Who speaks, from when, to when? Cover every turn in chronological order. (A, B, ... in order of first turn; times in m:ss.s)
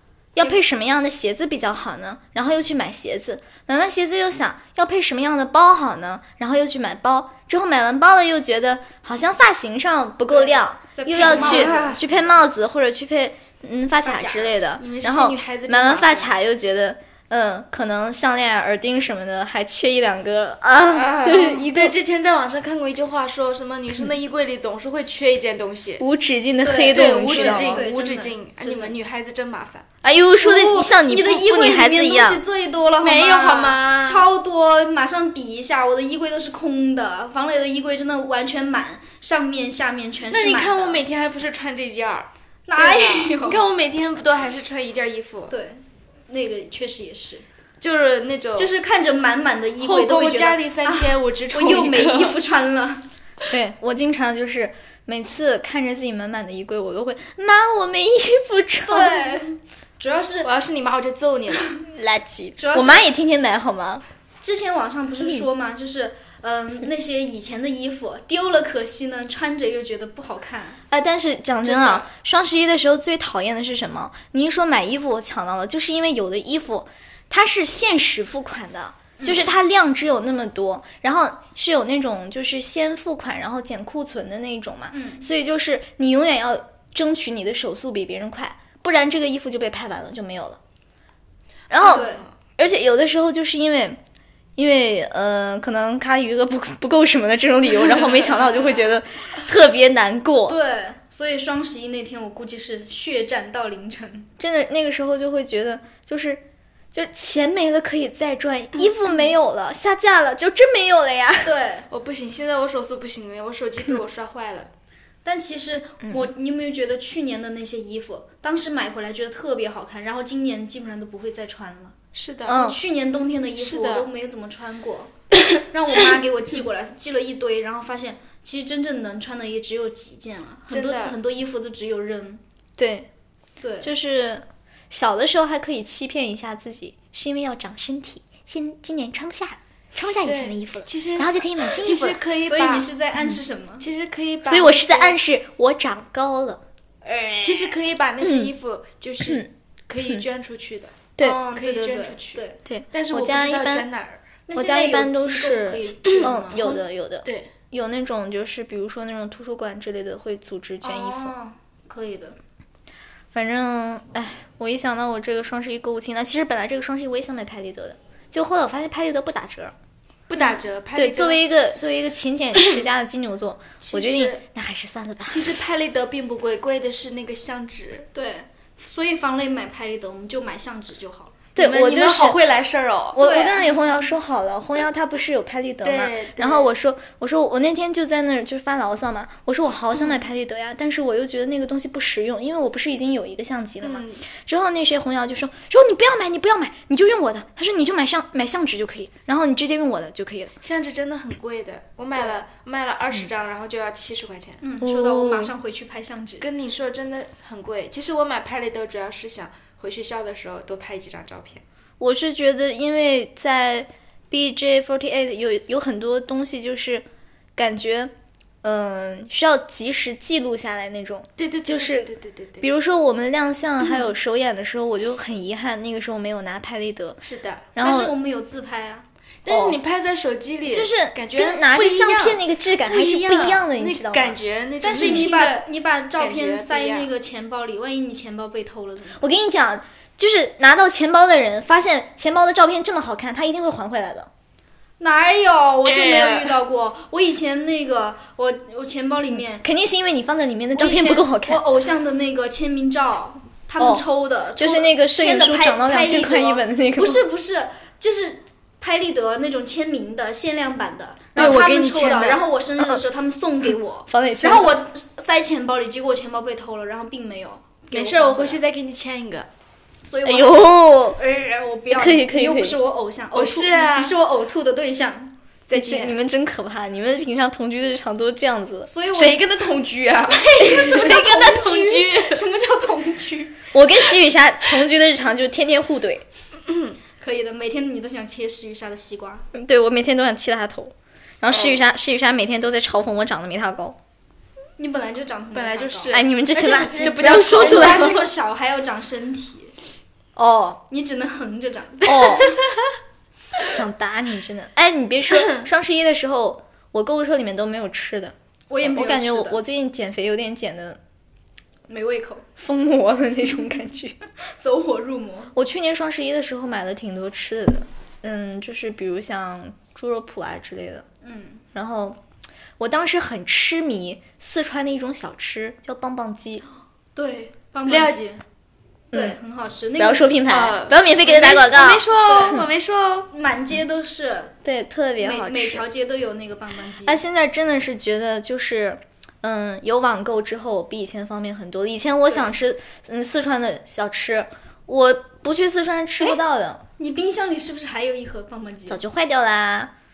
0:00.4-0:21.9 A
0:10.3-0:12.2 B
0:11.2-0:12.0 C
0:14.0-0:14.5 B
0:14.8-0:16.3 C
0:20.9-0:26.0 C
0:26.0-0:27.8 A
0:26.6-0:29.0 B
0:26.9-0:29.8 C
0:30.0-0:32.4 A
0:30.4-0:41.0 B
0:33.0-0:34.3 C
0:40.3-0:45.5 C
0:42.7-0:43.6 B
0:45.5-0:47.4 B
0:47.8-0:48.7 C
0:48.6-0:53.1 B
0:49.8-0:52.4 C
0:53.5-0:59.2 A
0:58.9-1:00.5 B
1:00.4-1:01.7 C
1:01.9-1:04.0 A
1:02.6-1:03.0 B
1:04.4-1:10.8 B
1:10.9-1:30.6 A
1:11.6-1:12.1 C
1:19.2-1:19.5 B
1:24.9-1:25.2 B
1:31.7-1:32.1 A
1:31.8-1:32.2 B
1:31.9-1:32.2 C
1:32.6-1:34.0 A
1:34.6-1:40.6 A
1:40.5-1:44.3 B
1:44.4-1:51.5 A
1:51.4-1:51.9 B
1:51.9-1:54.7 C
1:55.2-2:02.0 B
2:02.1-2:02.7 C
2:02.5-2:02.8 A
2:02.5-2:12.4 B
2:03.6-2:04.1 C
2:10.7-2:11.2 C
2:12.8-2:13.1 A
2:13.6-2:13.9 B
2:13.8-2:22.2 A
2:20.2-2:22.9 C
2:22.1-2:23.8 B
2:23.8-2:25.2 C
2:24.4-2:27.6 A
2:27.4-2:34.2 C
2:28.2-2:28.5 A
2:29.2-2:29.5 A
2:31.2-2:32.6 B
2:32.6-2:33.8 A
2:34.5-2:36.8 B
2:34.5-2:41.3 A
2:36.0-2:36.3 C
2:37.2-2:37.5 C
2:40.8-2:42.4 B
2:43.3-2:49.7 A
2:50.3-2:51.4 C
2:50.9-2:55.5 A
2:53.8-2:54.4 C
2:55.3-2:58.1 C
2:58.1-3:01.4 B
3:01.5-3:02.4 A
3:01.6-3:03.2 C
3:03.1-3:20.5 A
3:03.2-3:03.7 B
3:05.8-3:06.7 C
3:13.8-3:14.2 C
3:20.6-3:24.6 C
3:24.6-3:26.5 B
3:24.8-3:25.5 A
3:26.4-3:31.6 C
3:32.0-3:47.2 A
3:41.4-3:42.6 C
3:47.2-3:47.7 C
3:47.7-3:48.1 A
3:47.8-3:49.0 B
3:49.4-3:57.1 C
3:49.5-3:49.8 A
3:50.7-3:54.4 A
3:54.8-3:59.3 B
3:59.2-4:04.3 A
4:05.0-4:09.6 B
4:05.8-4:06.6 C
4:09.6-4:11.6 A
4:10.7-4:28.6 B
4:13.8-4:14.0 A
4:14.6-4:17.2 A
4:21.4-4:22.4 C
4:24.1-4:24.7 A
4:27.9-4:29.5 C
4:30.1-4:35.3 B
4:30.2-4:31.2 A
4:31.9-4:32.8 A
4:33.3-4:34.2 C
4:35.7-4:36.2 C
4:35.7-4:38.9 A
4:38.9-4:39.5 B
4:39.1-4:42.4 C
4:40.4-4:43.6 B
4:43.7-4:46.2 A
4:46.7-4:46.9 C
4:47.2-4:49.5 B
4:49.5-4:54.0 A
4:51.5-4:51.8 C
4:54.8-4:59.7 B
4:55.5-4:58.3 C
4:56.1-4:58.2 A
5:00.4-5:00.8 A
5:00.9-5:02.6 B
5:02.0-5:02.5 A
5:03.6-5:11.0 A
5:05.3-5:05.7 C
5:08.7-5:09.6 B
5:11.9-5:12.5 B
5:12.6-5:14.2 A
5:14.5-5:15.5 B
5:15.5-5:21.0 A
5:21.2-5:21.6 B
5:21.7-5:22.2 A
5:22.8-5:26.6 A
5:27.2-5:28.4 B
5:27.8-5:28.2 C
5:29.1-5:29.4 A
5:29.1-5:30.4 B
5:30.0-5:32.1 A
5:30.5-5:33.3 C
5:32.2-5:32.6 B
5:33.3-5:34.6 B
5:34.6-5:35.8 A
5:35.2-5:37.2 B
5:37.0-5:46.8 A
5:47.0-5:49.0 B
5:48.9-5:49.9 A